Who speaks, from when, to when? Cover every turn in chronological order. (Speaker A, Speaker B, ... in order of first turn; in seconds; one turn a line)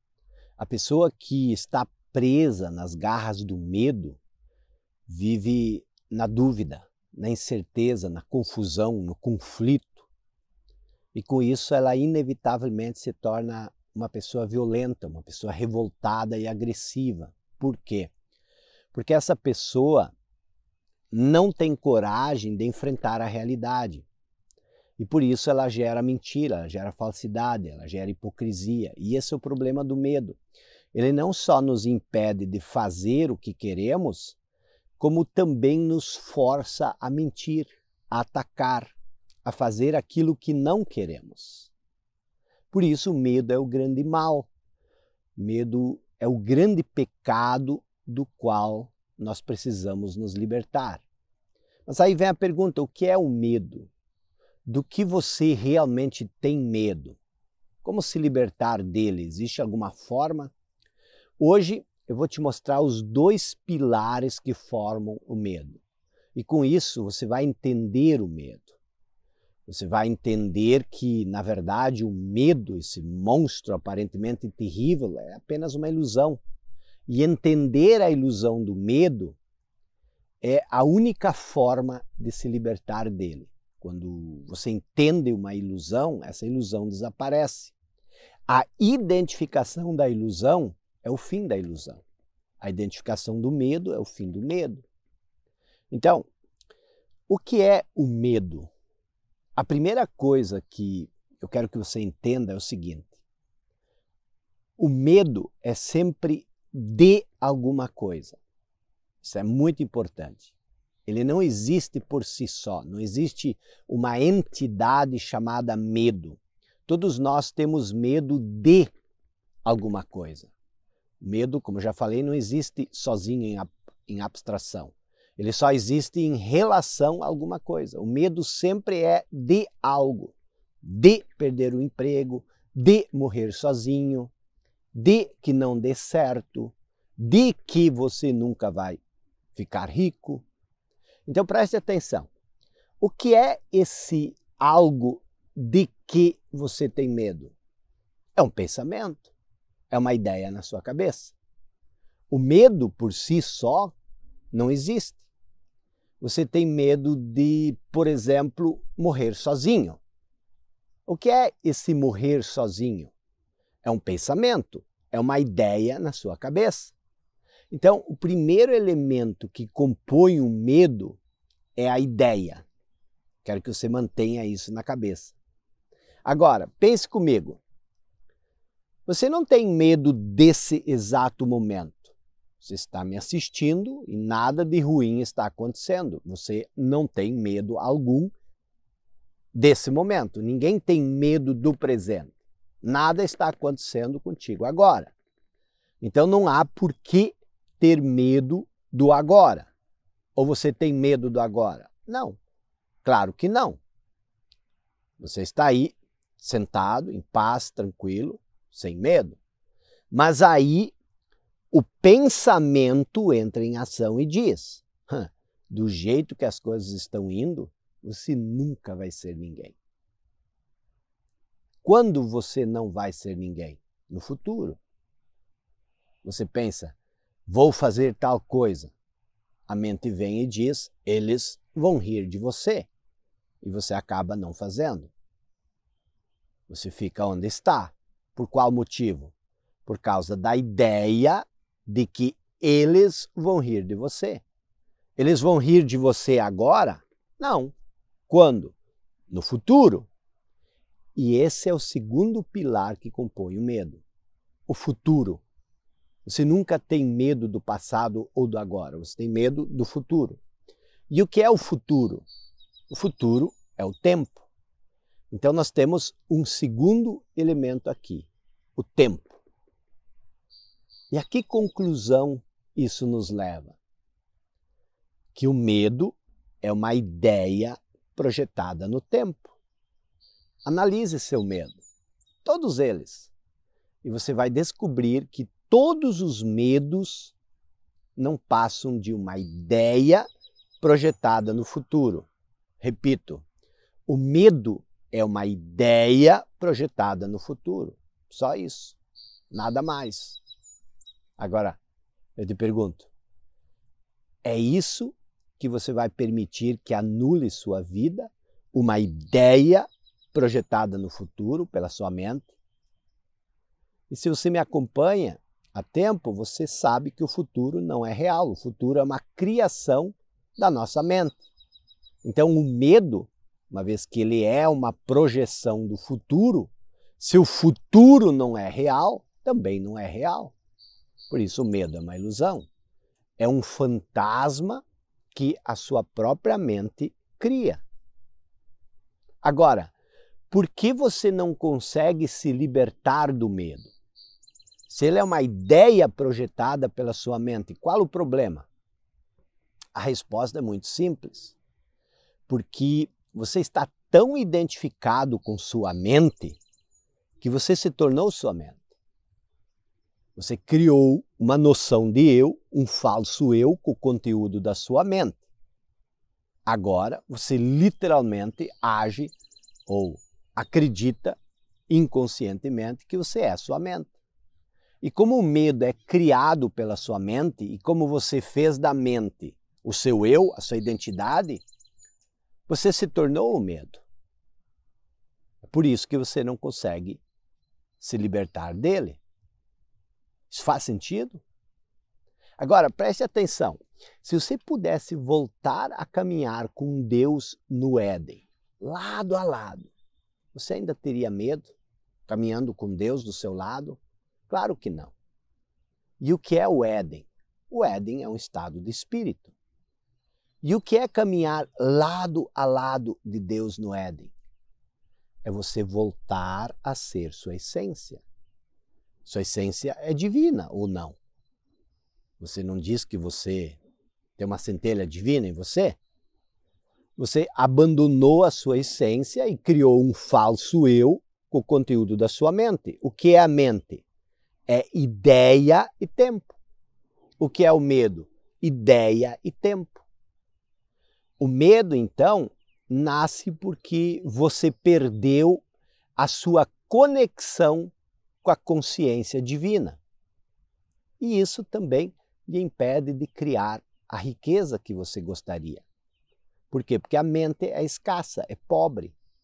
Speaker A: 0.6-4.2
Speaker A: 5.1-10.1
Speaker A: 11.1-18.1
Speaker A: 18.9-20.1
Speaker A: 21.1-24.1
Speaker A: 25.0-30.4
Speaker A: 30.9-34.4
Speaker A: 35.0-41.7
Speaker A: 42.7-44.5
Speaker A: 45.4-51.0
Speaker A: 51.9-53.9
Speaker A: 54.6-57.2
Speaker A: 57.8-60.5
Speaker A: 61.4-65.8
Speaker A: 66.3-68.8
Speaker A: 69.7-76.4
Speaker A: 77.1-79.4
Speaker A: 80.4-87.7
Speaker A: 88.5-92.0
Speaker A: 92.6-94.8
Speaker A: 95.9-96.3
Speaker A: 97.3-98.7
Speaker A: 99.5-103.1
Speaker A: 104.8-108.4
Speaker A: 109.2-110.5
Speaker A: 111.0-118.9
Speaker A: 119.6-120.5
Speaker A: 121.2-134.3
Speaker A: 134.9-139.0
Speaker A: 139.5-140.4
Speaker A: 141.2-142.3
Speaker A: 143.0-147.5
Speaker A: 148.3-149.3
Speaker A: 149.9-151.3
Speaker A: 152.3-153.9
Speaker A: 154.5-155.2
Speaker A: 156.2-160.0
Speaker A: 161.1-163.1
Speaker A: 163.8-166.9
Speaker A: 167.7-171.2
Speaker A: 171.8-172.6
Speaker A: 173.4-175.3
Speaker A: 176.2-177.6
Speaker A: 179.1-188.3
Speaker A: 189.5-195.1
Speaker A: 196.0-199.7
Speaker A: 200.3-202.4
Speaker A: 203.0-203.8
Speaker A: 205.2-209.4
Speaker A: 210.1-210.9
Speaker A: 211.7-219.8
Speaker A: 221.8-224.8
Speaker A: 226.2-226.9
Speaker A: 227.5-228.9
Speaker A: 229.7-232.9
Speaker A: 233.6-235.1
Speaker A: 236.7-239.3
Speaker A: 239.8-244.4
Speaker A: 245.2-247.7
Speaker A: 248.3-248.7
Speaker A: 249.3-250.1
Speaker A: 251.2-254.0
Speaker A: 254.7-255.4
Speaker A: 256.2-260.4
Speaker A: 261.1-262.2
Speaker A: 262.9-264.4
Speaker A: 265.3-269.4
Speaker A: 271.1-273.8
Speaker A: 275.3-279.6
Speaker A: 280.6-281.8
Speaker A: 282.4-283.3
Speaker A: 284.0-287.3
Speaker A: 288.1-290.2
Speaker A: 290.8-292.3
Speaker A: 292.8-293.4
Speaker A: 294.1-299.0
Speaker A: 299.5-300.4
Speaker A: 301.4-301.8
Speaker A: 302.4-303.1
Speaker A: 304.4-312.5
Speaker A: 314.1-321.4
Speaker A: 322.2-330.5
Speaker A: 331.3-332.7
Speaker A: 333.4-337.8
Speaker A: 339.4-339.9
Speaker A: 340.5-343.9
Speaker A: 344.9-348.7
Speaker A: 349.9-351.6
Speaker A: 352.5-356.6
Speaker A: 357.4-358.8
Speaker A: 360.4-365.4
Speaker A: 366.6-369.3
Speaker A: 369.9-371.4
Speaker A: 371.9-374.1
Speaker A: 375.0-381.6
Speaker A: 382.7-384.0
Speaker A: 385.6-387.2
Speaker A: 388.0-389.2
Speaker A: 390.5-391.4
Speaker A: 392.6-399.9
Speaker A: 400.5-401.7
Speaker A: 402.3-405.1
Speaker A: 406.2-409.5
Speaker A: 410.6-414.3
Speaker A: 415.4-418.2
Speaker A: 419.2-421.2
Speaker A: 422.4-423.8
Speaker A: 424.4-426.0
Speaker A: 427.1-434.0
Speaker A: 434.7-436.6
Speaker A: 437.4-440.0
Speaker A: 441.4-445.6
Speaker A: 446.2-447.9
Speaker A: 448.4-450.0
Speaker A: 451.2-455.9
Speaker A: 456.7-459.1